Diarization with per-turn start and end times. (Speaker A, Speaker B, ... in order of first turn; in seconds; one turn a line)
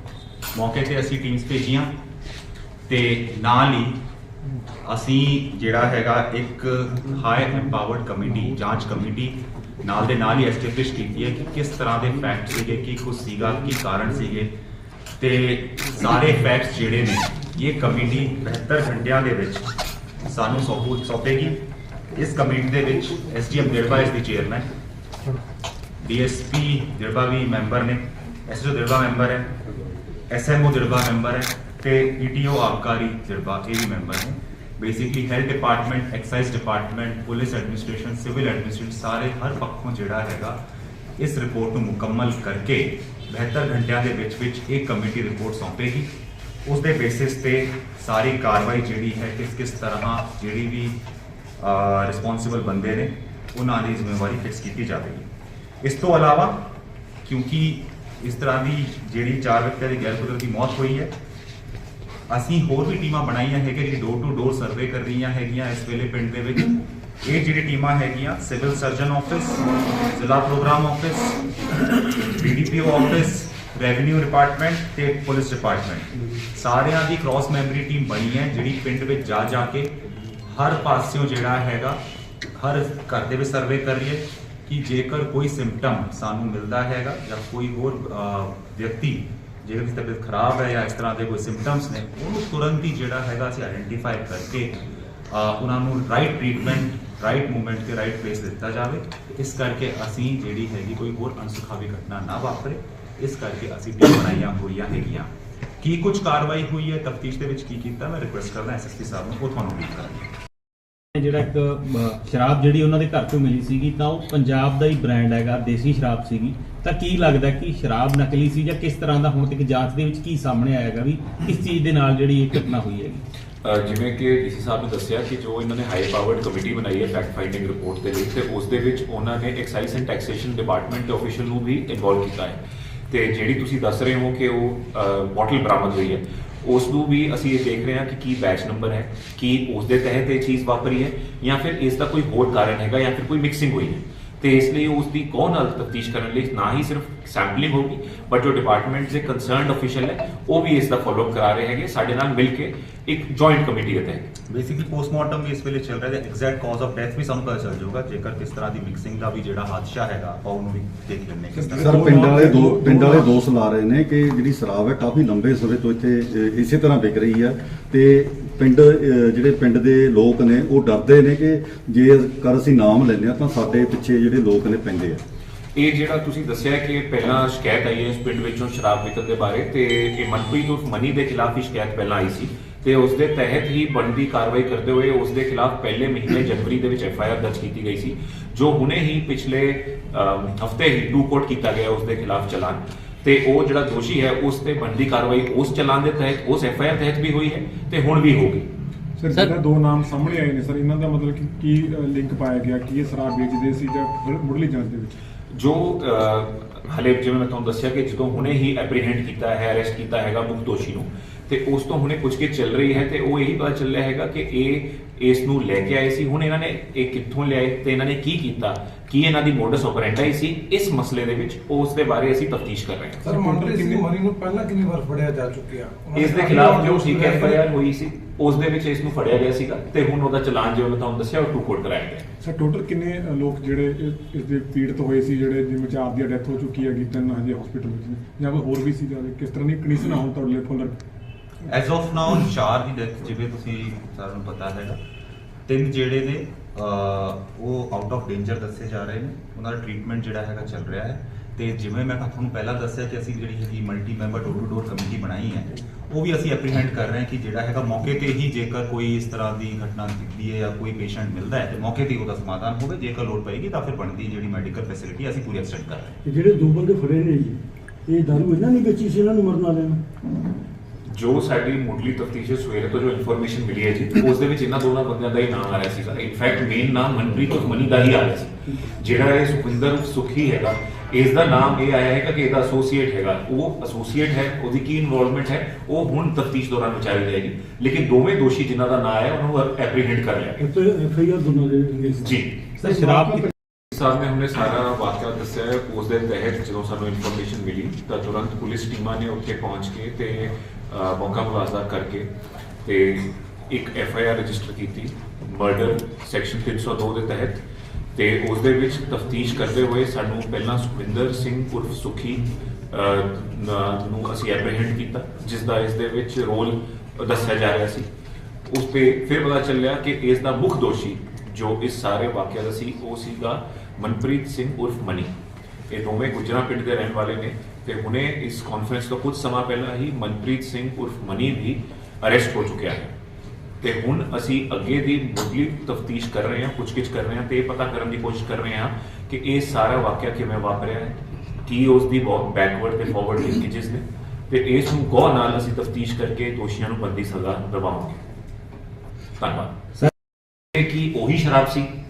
Speaker A: 0.5-1.9
Speaker A: 2.9-4.0
Speaker A: 4.8-14.5
Speaker A: 15.2-19.7
Speaker A: 20.2-21.6
Speaker A: 22.1-24.7
Speaker A: 26.0-29.5
Speaker A: 30.3-40.6
Speaker A: 41.2-46.1
Speaker A: 46.6-51.0
Speaker A: 51.6-55.3
Speaker A: 55.8-56.6
Speaker A: 57.2-61.1
Speaker A: 62.3-79.9
Speaker A: 80.4-82.0
Speaker A: 82.5-105.3
Speaker A: 105.8-110.3
Speaker B: 111.2-123.2
Speaker C: 123.6-132.6
Speaker C: 133.1-154.3
Speaker A: 154.5-162.2
Speaker D: 161.8-175.2
Speaker E: 162.1-163.2
Speaker C: 175.8-198.7
Speaker E: 199.2-205.1
Speaker C: 205.5-223.2
Speaker F: 223.2-227.7
Speaker E: 223.4-224.0
Speaker C: 226.1-232.3
Speaker E: 232.5-240.9
Speaker A: 241.7-245.0
Speaker A: 245.7-266.1
Speaker G: 266.2-270.0
Speaker C: 271.1-290.6
Speaker G: 290.6-292.4
Speaker C: 292.2-292.7
Speaker B: 292.8-293.5
Speaker C: 293.9-302.3
Speaker C: 302.8-307.6
Speaker C: 308.1-318.1
Speaker C: 318.7-325.3
Speaker C: 325.9-333.1
Speaker C: 333.8-348.2
Speaker C: 349.4-349.8
Speaker C: 350.7-351.9